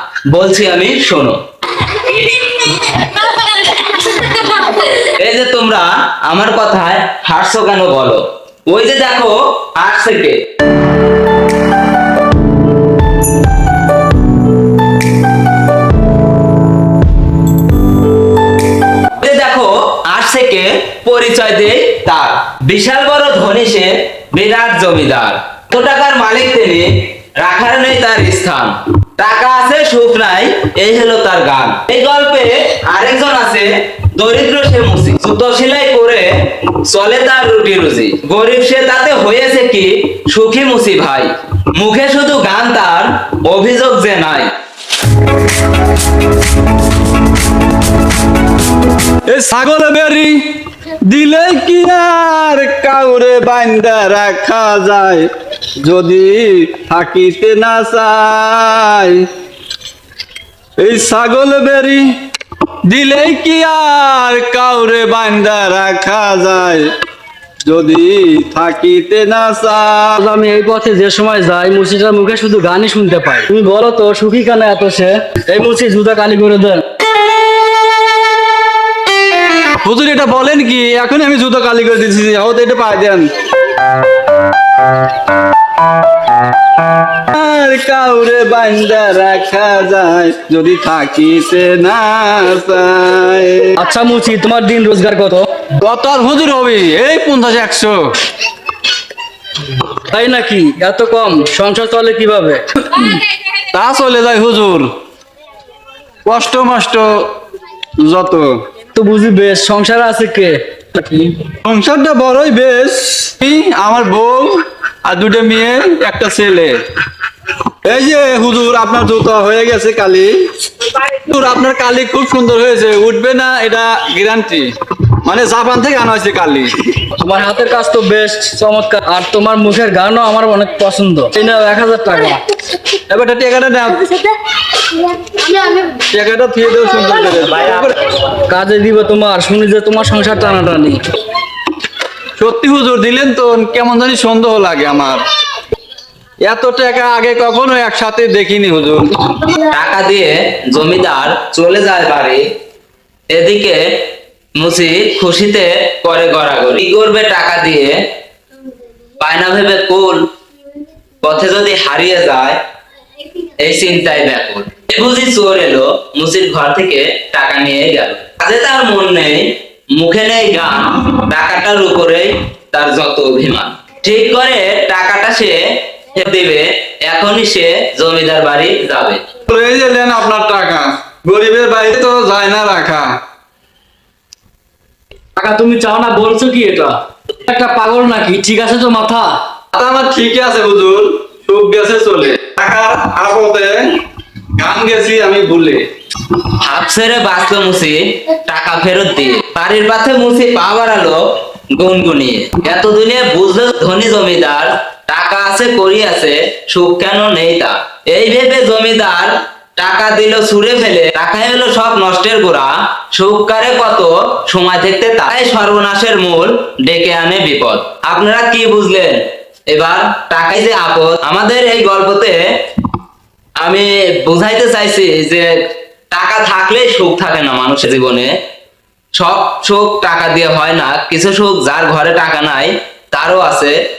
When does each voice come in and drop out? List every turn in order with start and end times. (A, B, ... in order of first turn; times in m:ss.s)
0:00.3-0:01.4 A
0:04.4-0:10.4 A
0:19.2-0:44.5 A
0:49.3-0:59.3 B
1:00.8-1:02.1 B
1:02.8-1:06.9 B
1:07.6-1:10.2 B
1:10.2-1:16.8 C
1:19.8-1:23.3 B
1:27.2-1:33.8 B
1:33.8-1:35.5 C
1:35.8-1:38.2 B
1:40.1-1:43.2 C
1:43.7-1:44.9 B
1:46.2-1:47.4 B
1:48.0-1:48.5 B
1:49.0-1:51.4 C
1:51.6-1:56.8 B
1:57.8-2:07.1 B
2:07.2-2:12.4 C
2:13.1-2:14.2 B
2:15.4-2:15.8 C
2:15.9-2:18.1 B
2:18.5-2:21.0 C
2:22.4-2:25.2 B
2:26.4-2:29.1 B
2:29.5-2:32.4 A
2:33.3-2:34.0 A
2:34.6-2:38.0 A
2:39.2-2:40.3 A
2:41.2-2:42.6 A
2:43.6-2:55.6 A
2:56.1-2:59.2 A
2:59.5-3:03.2 B
3:05.4-3:09.4 C
3:09.7-3:14.0 B
3:14.6-3:15.9 B
3:16.5-3:21.2 A
3:21.8-3:42.4 A
3:43.6-3:45.5 A
3:46.1-3:48.3 A
3:49.2-3:53.8 A